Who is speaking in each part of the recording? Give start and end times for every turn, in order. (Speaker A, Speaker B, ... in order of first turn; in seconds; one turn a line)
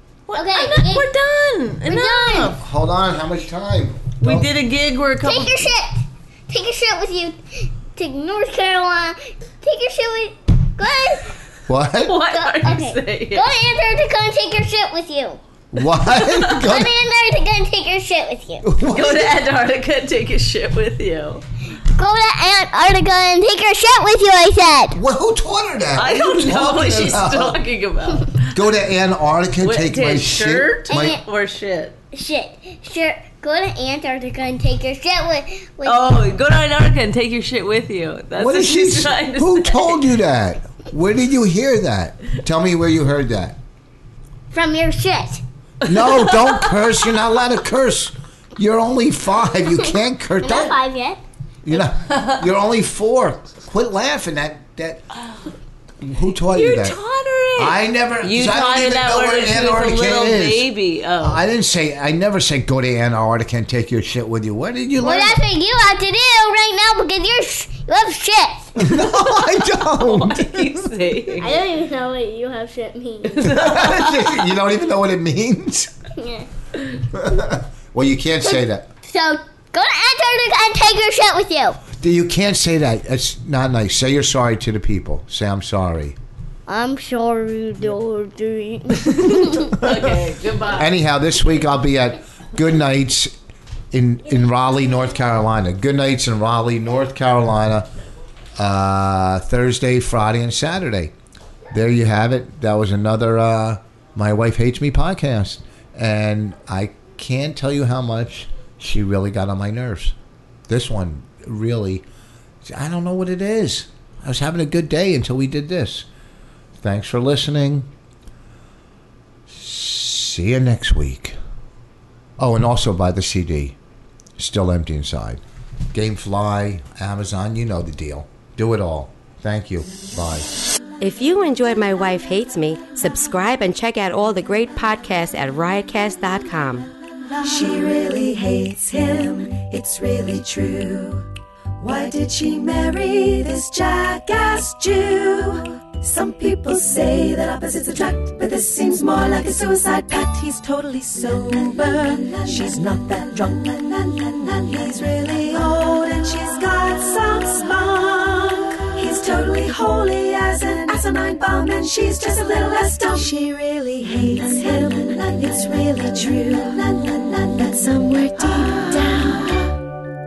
Speaker A: 0.3-2.6
Speaker B: 0.3-1.1
Speaker B: 1.9-2.6
Speaker C: 2.5-4.5
Speaker A: 4.2-5.7
Speaker B: 5.2-11.4
Speaker C: 11.7-12.2
Speaker A: 12.0-13.5
Speaker B: 12.3-15.4
Speaker C: 15.7-16.9
Speaker A: 16.0-16.6
Speaker B: 16.5-18.6
Speaker C: 18.6-19.4
Speaker A: 18.8-21.4
Speaker B: 21.9-25.0
Speaker C: 24.9-27.6
Speaker A: 25.9-28.6
Speaker C: 28.4-31.2
Speaker A: 29.6-31.9
Speaker B: 30.9-31.2
Speaker B: 32.1-36.1
Speaker A: 35.8-40.1
Speaker C: 38.3-43.6
Speaker B: 44.5-45.4
Speaker C: 45.8-50.8
Speaker A: 45.8-47.0
Speaker B: 50.4-51.2
Speaker C: 51.6-55.0
Speaker C: 56.0-57.0
Speaker A: 56.5-61.4
Speaker C: 57.5-65.4
Speaker B: 65.0-68.8
Speaker C: 68.8-70.9
Speaker A: 68.8-71.6
Speaker B: 71.4-73.5
Speaker A: 73.2-74.5
Speaker C: 73.4-75.9
Speaker B: 76.2-76.5
Speaker C: 77.1-78.9
Speaker B: 79.0-81.8
Speaker C: 81.9-86.2
Speaker B: 86.7-89.8
Speaker A: 89.0-90.9
Speaker C: 89.8-90.2
Speaker C: 90.7-93.3
Speaker C: 93.9-97.9
Speaker C: 98.6-101.1
Speaker C: 101.7-110.1
Speaker C: 110.7-112.0
Speaker C: 112.6-116.1
Speaker C: 116.8-117.9
Speaker C: 119.5-121.4
Speaker C: 122.4-123.8
Speaker C: 124.4-125.4
Speaker C: 125.9-130.5
Speaker D: 131.0-136.9
Speaker E: 137.4-141.3
Speaker E: 141.8-169.8